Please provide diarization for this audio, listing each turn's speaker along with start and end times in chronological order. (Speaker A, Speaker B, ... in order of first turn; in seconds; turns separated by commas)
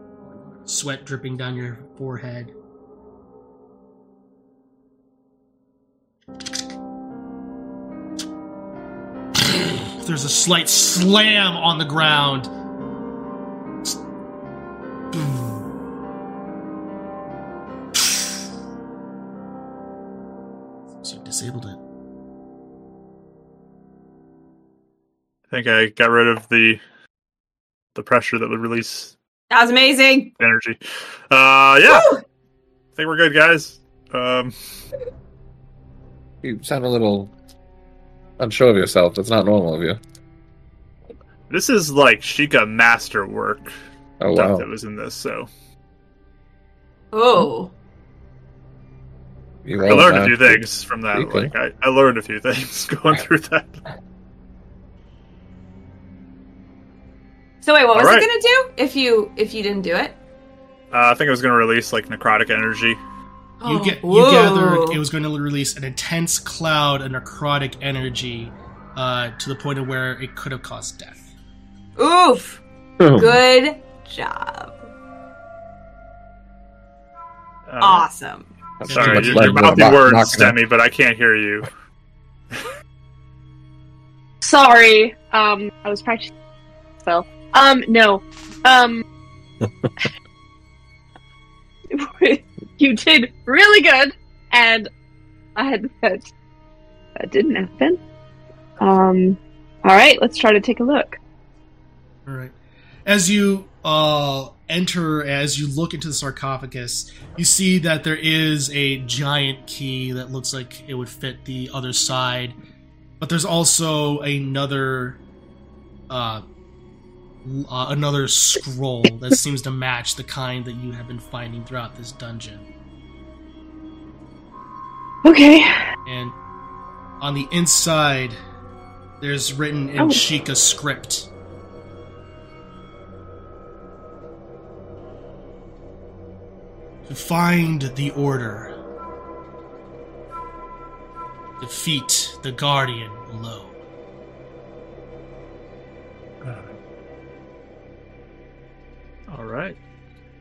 Speaker A: 0.6-2.5, Speaker A: 9.5-12.5, Speaker A: 15.1-15.7, Speaker A: 17.9-18.2, Speaker A: 21.0-21.8, Speaker B: 25.5-26.8, Speaker B: 27.9-29.1, Speaker C: 29.5-30.3, Speaker B: 30.4-30.8, Speaker B: 31.3-32.1, Speaker C: 31.8-32.2, Speaker B: 33.0-34.5, Speaker D: 36.4-37.3, Speaker D: 38.4-40.0, Speaker B: 41.5-43.7, Speaker D: 44.2-44.7, Speaker B: 44.3-45.5, Speaker C: 47.1-47.7, Speaker D: 49.6-51.5, Speaker B: 49.8-53.8, Speaker C: 57.6-60.2, Speaker B: 57.9-58.3, Speaker B: 60.9-63.0, Speaker C: 63.6-65.0, Speaker A: 63.6-71.3, Speaker C: 72.0-74.8, Speaker D: 73.0-73.4, Speaker B: 77.7-78.1, Speaker C: 77.8-78.5, Speaker D: 78.8-80.6, Speaker A: 78.9-79.9, Speaker B: 78.9-81.7, Speaker E: 84.4-86.3, Speaker E: 87.0-89.0, Speaker E: 91.9-94.9, Speaker E: 95.5-96.3, Speaker E: 97.2-98.0, Speaker E: 98.8-101.2, Speaker A: 102.2-102.5, Speaker A: 103.0-112.6, Speaker A: 113.2-115.2, Speaker A: 116.1-116.4, Speaker A: 117.4-122.7, Speaker E: 125.2-125.8, Speaker A: 126.0-126.3, Speaker A: 127.2-128.4, Speaker A: 129.2-131.3, Speaker A: 137.1-138.7, Speaker A: 141.6-143.8, Speaker B: 149.3-149.8